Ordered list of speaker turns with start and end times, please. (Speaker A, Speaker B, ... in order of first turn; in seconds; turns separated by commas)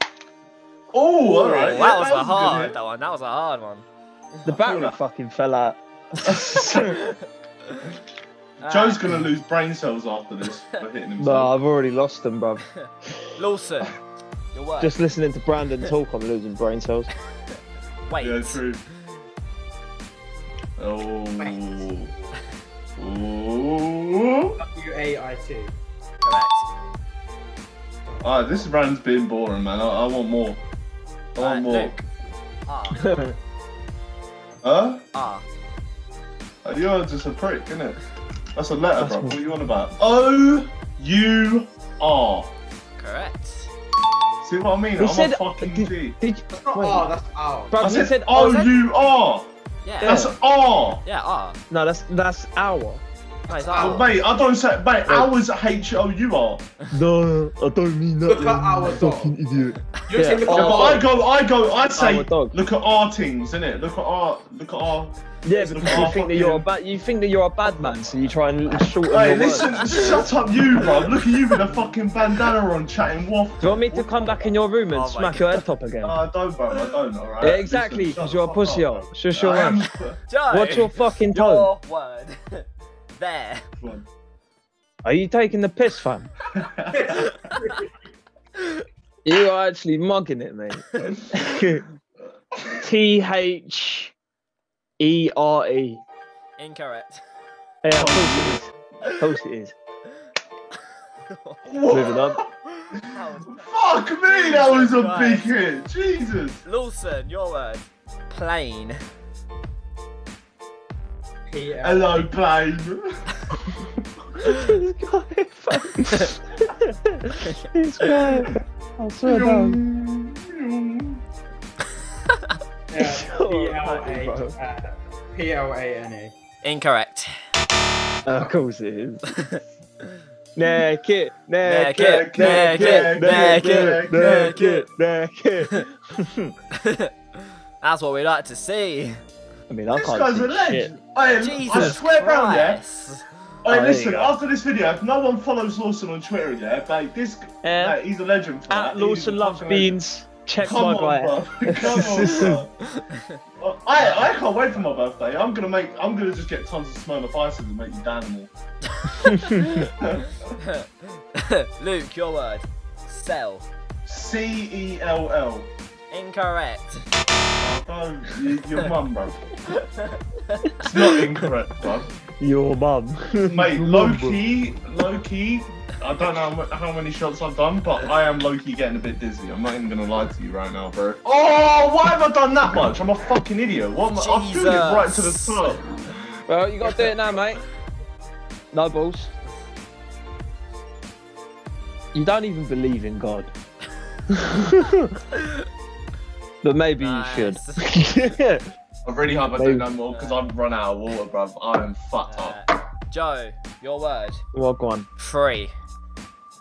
Speaker A: 0.9-2.8, Speaker B: 1.5-4.5, Speaker C: 4.5-7.0, Speaker A: 4.5-5.0, Speaker A: 6.3-7.0, Speaker B: 6.8-7.2, Speaker B: 8.6-9.0, Speaker A: 8.6-11.5, Speaker C: 11.2-12.7, Speaker B: 12.8-13.9, Speaker B: 14.5-14.9, Speaker C: 14.8-17.1, Speaker B: 18.0-18.6, Speaker A: 18.2-18.8, Speaker A: 20.8-22.1, Speaker D: 21.4-22.1, Speaker A: 23.0-24.6, Speaker D: 24.6-25.8, Speaker B: 26.2-26.7, Speaker D: 28.1-28.7, Speaker A: 28.2-30.6, Speaker A: 31.4-31.9, Speaker B: 31.4-32.0, Speaker B: 32.7-33.1, Speaker C: 32.9-33.4, Speaker A: 34.6-35.0, Speaker B: 35.1-35.5, Speaker A: 36.6-38.0, Speaker A: 38.5-42.5, Speaker C: 39.0-39.4, Speaker B: 43.0-43.7, Speaker A: 44.4-46.1, Speaker C: 45.0-47.1, Speaker D: 46.5-47.8, Speaker C: 47.7-48.6, Speaker A: 47.8-49.5, Speaker B: 48.3-48.7, Speaker B: 49.9-50.2, Speaker C: 50.0-50.4, Speaker A: 50.0-51.0, Speaker B: 51.0-51.6, Speaker C: 51.7-53.0, Speaker B: 53.5-54.1, Speaker D: 53.5-54.2, Speaker A: 53.7-56.7, Speaker C: 55.0-55.3, Speaker C: 56.9-61.0, Speaker D: 58.3-59.4, Speaker D: 60.0-61.2, Speaker A: 60.5-66.7, Speaker C: 62.0-62.6, Speaker C: 65.4-70.2, Speaker B: 65.7-66.2, Speaker A: 69.1-74.6, Speaker B: 69.2-70.2, Speaker C: 73.6-76.2, Speaker B: 74.9-75.6, Speaker A: 76.0-80.2, Speaker C: 77.4-79.8, Speaker B: 80.3-83.7, Speaker C: 80.5-81.7, Speaker A: 83.8-84.1, Speaker C: 85.0-86.3, Speaker A: 86.5-87.4, Speaker D: 86.9-87.9, Speaker B: 88.6-88.8, Speaker C: 89.2-91.9, Speaker C: 92.8-94.1, Speaker C: 95.0-96.0, Speaker B: 96.6-97.2, Speaker C: 97.8-99.7, Speaker A: 98.0-98.6, Speaker B: 101.3-101.7, Speaker A: 101.7-102.5, Speaker C: 101.9-102.4, Speaker B: 102.7-103.7, Speaker A: 103.5-106.6, Speaker B: 104.3-105.6, Speaker B: 106.7-109.0, Speaker D: 111.5-112.3, Speaker A: 111.8-113.6, Speaker C: 114.5-119.8, Speaker B: 117.5-118.5, Speaker A: 119.3-121.2, Speaker D: 122.9-126.3, Speaker C: 123.0-124.5, Speaker B: 126.6-127.3, Speaker C: 128.2-129.4, Speaker C: 130.6-136.6, Speaker B: 131.6-134.9, Speaker A: 132.0-134.6, Speaker B: 136.7-137.1, Speaker B: 137.8-139.2, Speaker C: 139.7-140.9, Speaker A: 140.0-142.8, Speaker B: 141.3-143.2, Speaker C: 141.7-142.0, Speaker A: 143.7-150.0, Speaker C: 143.7-144.4, Speaker C: 147.6-148.0, Speaker C: 148.7-152.6, Speaker A: 150.6-152.7, Speaker B: 152.8-153.4, Speaker A: 153.6-158.5, Speaker B: 158.9-159.9, Speaker C: 159.2-159.7, Speaker A: 159.7-160.6, Speaker B: 160.6-163.7, Speaker A: 164.1-165.7, Speaker B: 166.1-167.1, Speaker A: 167.6-169.4, Speaker B: 169.7-170.7, Speaker A: 170.8-172.1, Speaker C: 172.4-174.4, Speaker A: 173.5-186.2, Speaker B: 184.2-185.8, Speaker C: 186.5-187.6, Speaker C: 188.7-189.3, Speaker C: 192.1-193.5, Speaker C: 194.3-195.2, Speaker C: 196.6-198.7, Speaker B: 197.0-197.9, Speaker A: 199.1-202.6, Speaker C: 199.6-199.9, Speaker B: 200.1-200.4, Speaker B: 202.3-204.4, Speaker C: 204.5-205.1, Speaker B: 205.2-205.7